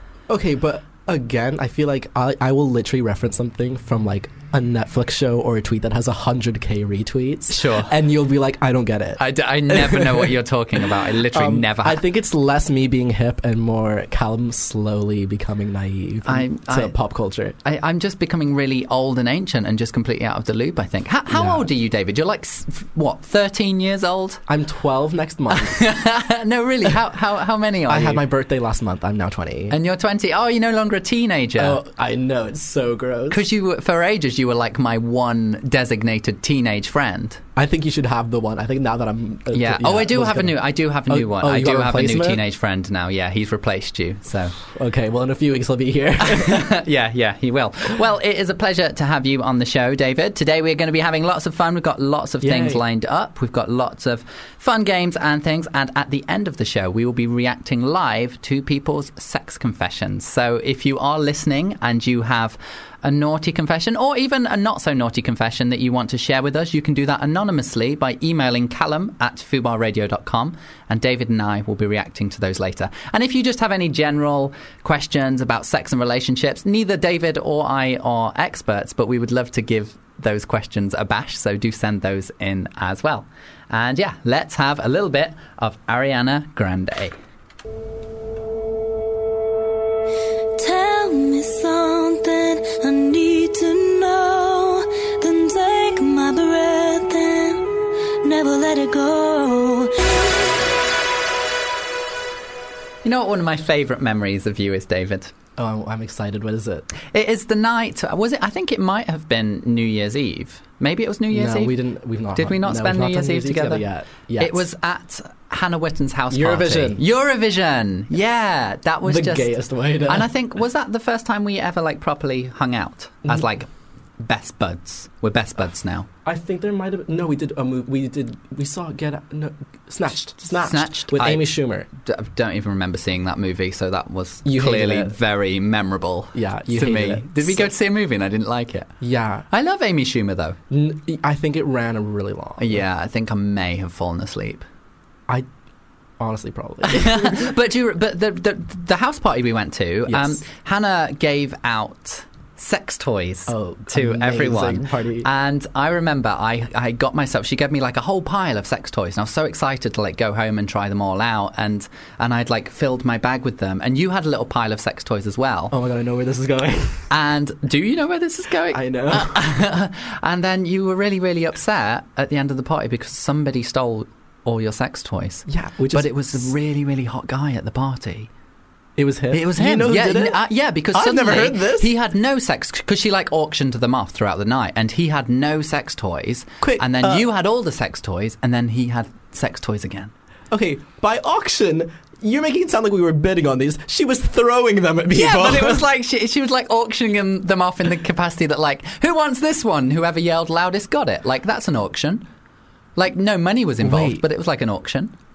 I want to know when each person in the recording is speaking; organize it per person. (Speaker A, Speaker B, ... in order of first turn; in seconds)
Speaker A: 0.3-17.6, 21.3-21.7, 24.5-25.8, 27.9-29.8, 31.6-33.4, 37.6-42.4, 44.8-46.8, 52.4-52.8, 105.6-106.9, 111.3-114.7, 116.3-117.0, 119.0-120.3, 126.2-131.9, 134.4-135.2, 136.3-137.7, 139.0-139.5, 140.7-142.8, 146.2-147.5, 150.1-150.4, 153.5-155.3, 165.7-167.1, 168.7-169.4, 175.5-176.5, 179.0-180.4, 180.9-181.9, 186.6-187.3, 190.5-195.8, 203.8-204.2
Speaker B: 7.5-7.9, 9.2-12.0, 16.2-16.9, 17.6-24.4, 25.5-28.2, 29.7-31.8, 33.3-37.4, 39.5-44.6, 46.2-87.2, 103.0-105.3, 107.0-111.7, 112.4-113.8, 114.4-119.5, 120.1-123.7, 124.2-126.1, 130.6-138.9, 139.5-140.6, 142.6-144.7, 146.8-165.8, 167.1-178.3, 179.3-190.1, 195.1-202.3, 203.0-205.1
Speaker C: 90.6-100.1